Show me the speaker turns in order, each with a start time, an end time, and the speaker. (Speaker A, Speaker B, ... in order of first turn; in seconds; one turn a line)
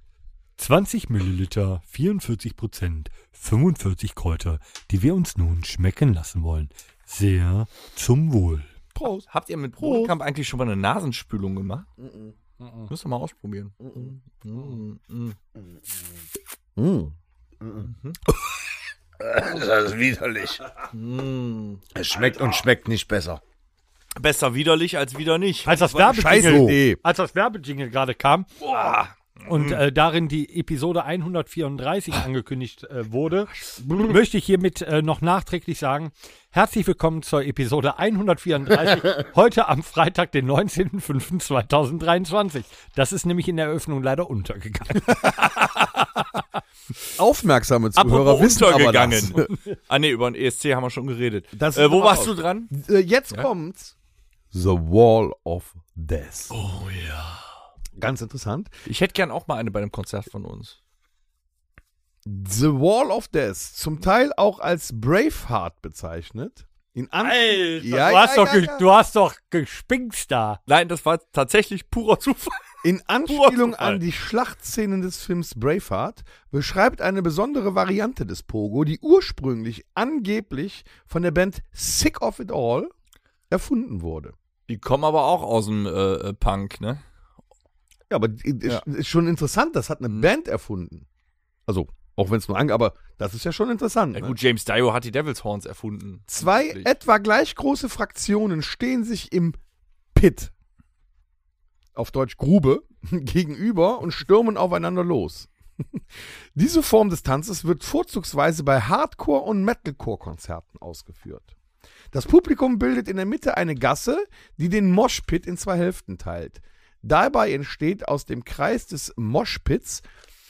Speaker A: 0.6-8.7
Speaker B: 8.9-9.3
Speaker C: 9.3-11.9
Speaker B: 9.8-10.1
Speaker B: 12.0-12.3
Speaker A: 12.6-12.9
Speaker C: 12.9-15.4
Speaker B: 13.8-14.1
Speaker B: 16.8-17.1
Speaker D: 17.6-17.9
Speaker C: 17.9-18.2
Speaker D: 19.2-20.6
Speaker C: 20.9-21.8
Speaker D: 21.9-23.4
Speaker C: 24.2-25.7
Speaker A: 25.6-28.6
Speaker B: 25.8-27.0
Speaker D: 26.4-26.7
Speaker A: 29.5-45.4
Speaker C: 29.5-29.8
Speaker B: 33.8-34.1
Speaker B: 47.2-49.5
Speaker C: 48.0-52.7
Speaker B: 51.5-53.9
Speaker B: 54.5-56.5
Speaker C: 56.5-57.4
Speaker B: 58.0-58.7
Speaker C: 58.9-60.8
Speaker B: 62.2-68.8
Speaker A: 67.2-70.6
Speaker C: 70.7-72.6
Speaker B: 72.8-82.9
Speaker C: 73.3-74.0
Speaker B: 83.5-84.3
Speaker C: 84.7-87.0
Speaker B: 88.1-91.0
Speaker B: 91.7-94.4
Speaker C: 94.1-96.9
Speaker B: 96.3-99.6
Speaker B: 100.2-100.5
Speaker B: 102.0-106.0
Speaker B: 106.5-111.5
Speaker B: 112.1-120.0